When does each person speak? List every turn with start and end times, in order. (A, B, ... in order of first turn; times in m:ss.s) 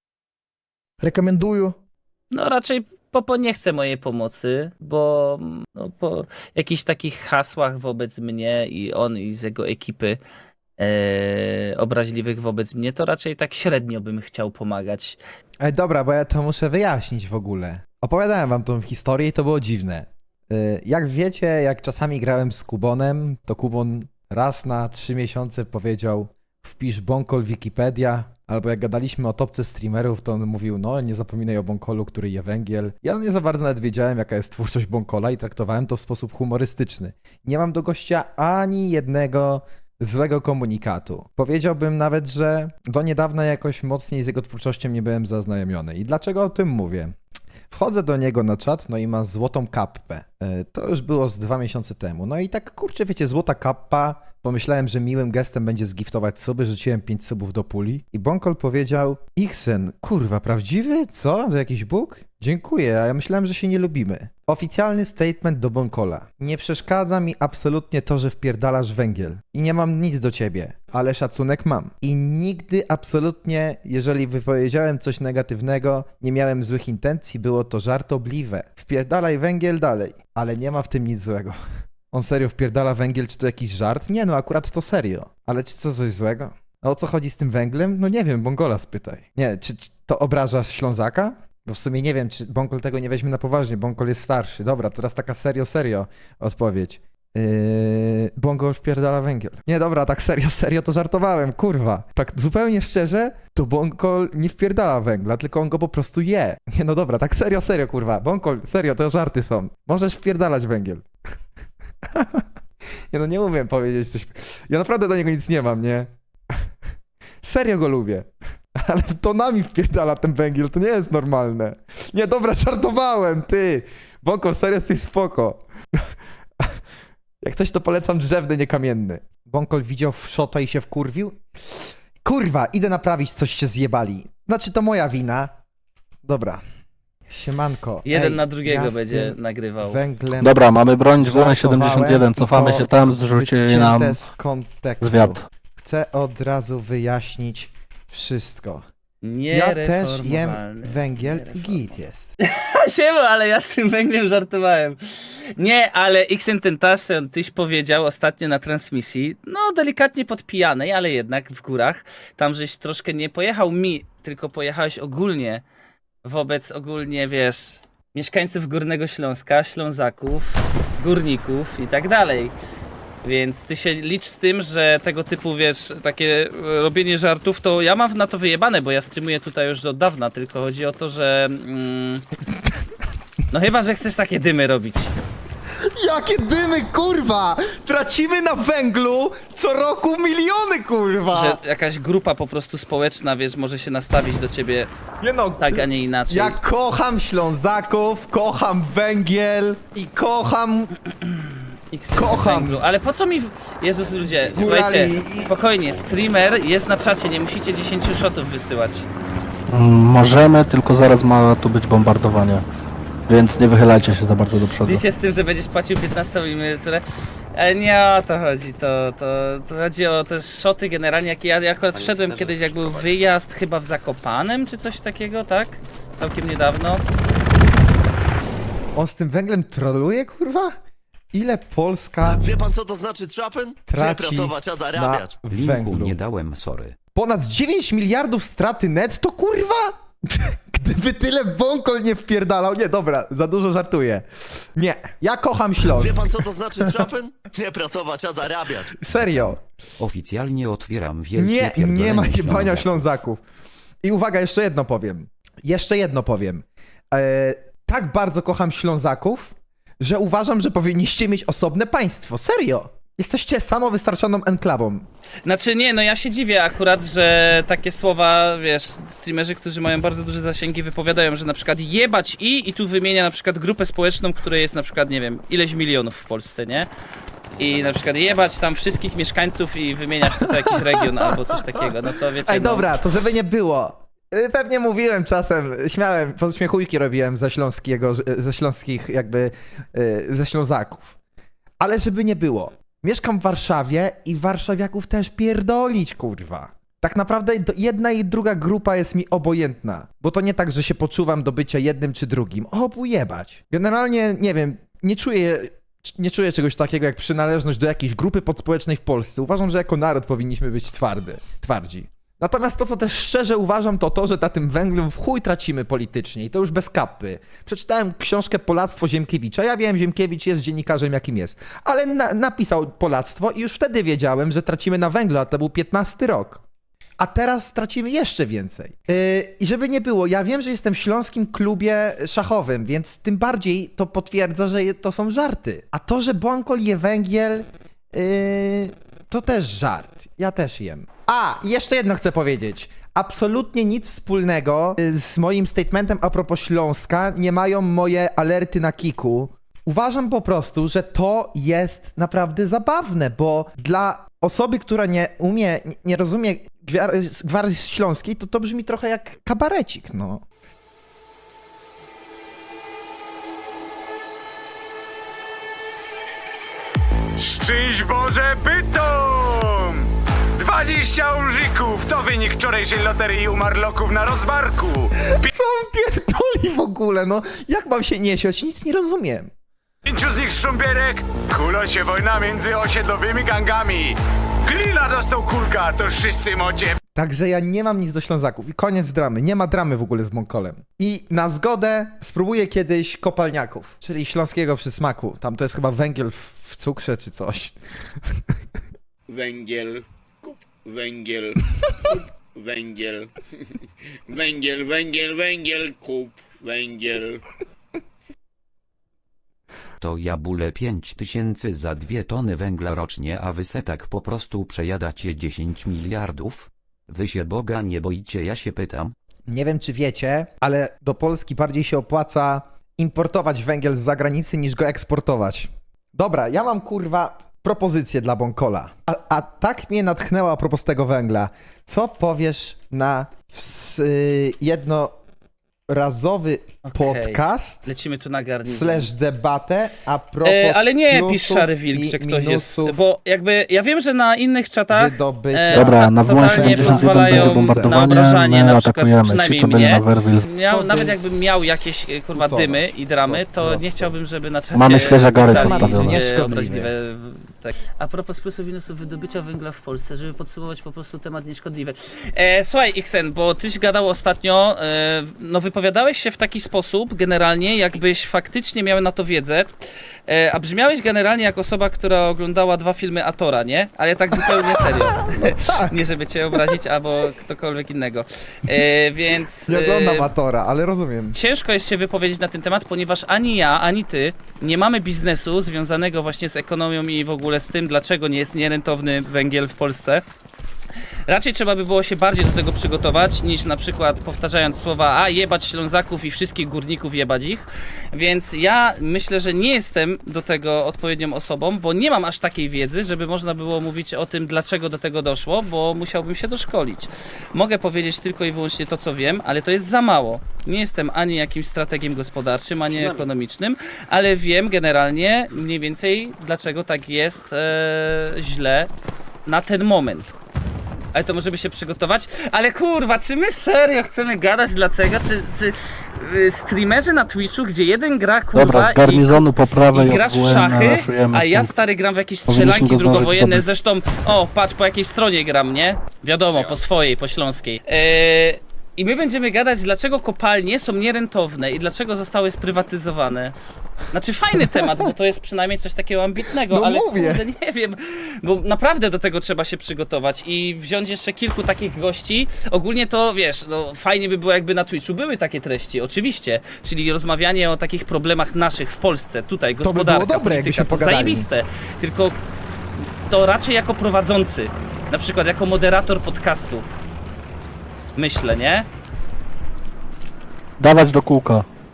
0:01.0-0:01.8 A
0:02.3-0:10.2 B
0:10.8-0:15.2 B
0:15.6-0:47.2 A
0:47.7-1:21.6 A
1:22.1-1:51.0 A
1:52.0-1:52.5 A
1:53.1-1:56.6 A
1:57.4-2:06.8 A
2:07.4-2:15.6 A
2:16.2-2:16.6 A
2:17.3-2:28.8 A
2:18.0-2:20.0 B
2:20.4-2:24.2 C
2:25.0-2:25.4 C
2:29.2-2:31.9 B
2:29.5-2:32.3 A
2:32.4-2:45.6 B
2:46.2-2:52.5 B
2:53.2-3:02.2 B
3:03.5-3:05.1 B
3:05.8-3:11.6 A
3:11.3-3:14.9 B
3:15.2-3:20.9 A
3:15.6-3:16.6 B
3:21.3-3:29.1 B
3:22.1-3:22.8 A
3:24.5-3:25.6 A
3:29.7-3:32.6 C
3:33.3-3:35.0 C
3:34.8-3:47.0 B
3:48.9-3:50.7 A
3:51.3-3:52.4 A
3:52.2-3:55.4 D
3:53.9-3:56.2 A
3:55.5-3:56.9 E
3:57.1-4:06.3 A
4:05.9-4:09.0 D
4:09.0-4:09.6 A
4:09.1-4:13.2 E
4:11.4-4:13.4 A
4:14.0-4:25.1 A
4:25.4-4:36.9 B
4:37.6-4:43.0 B
4:40.3-4:41.4 A
4:42.4-4:51.1 A
4:51.8-5:26.6 A
5:27.2-6:00.4 A
6:07.4-6:15.5 F
6:15.4-6:19.5 A
6:20.0-6:27.0 F
6:27.1-6:38.4 A
6:39.3-6:43.3 G
6:44.3-6:47.4 G
6:50.0-6:59.1 E
6:59.5-7:15.1 A
7:15.9-7:17.9 A
7:16.8-7:19.1 B
7:18.6-7:23.0 A
7:20.4-7:49.7 B
7:24.9-7:28.0 A
7:25.7-7:30.4 C
7:30.7-7:34.1 A
7:34.7-7:36.2 C
7:35.4-7:36.9 A
7:50.3-8:00.3 B
7:54.4-7:56.8 A
7:59.7-8:01.4 A
8:01.3-8:10.2 B
8:11.3-8:38.9 B
8:39.4-8:40.3 B
8:41.1-9:03.6 B
8:48.5-8:51.7 C
8:52.5-8:53.7 C
9:04.1-9:22.4 B
9:04.6-9:05.0 A
9:06.6-9:07.5 A
9:19.8-9:21.5 A
9:23.3-9:26.8 B
9:28.2-9:28.9 B
9:30.8-9:31.6 C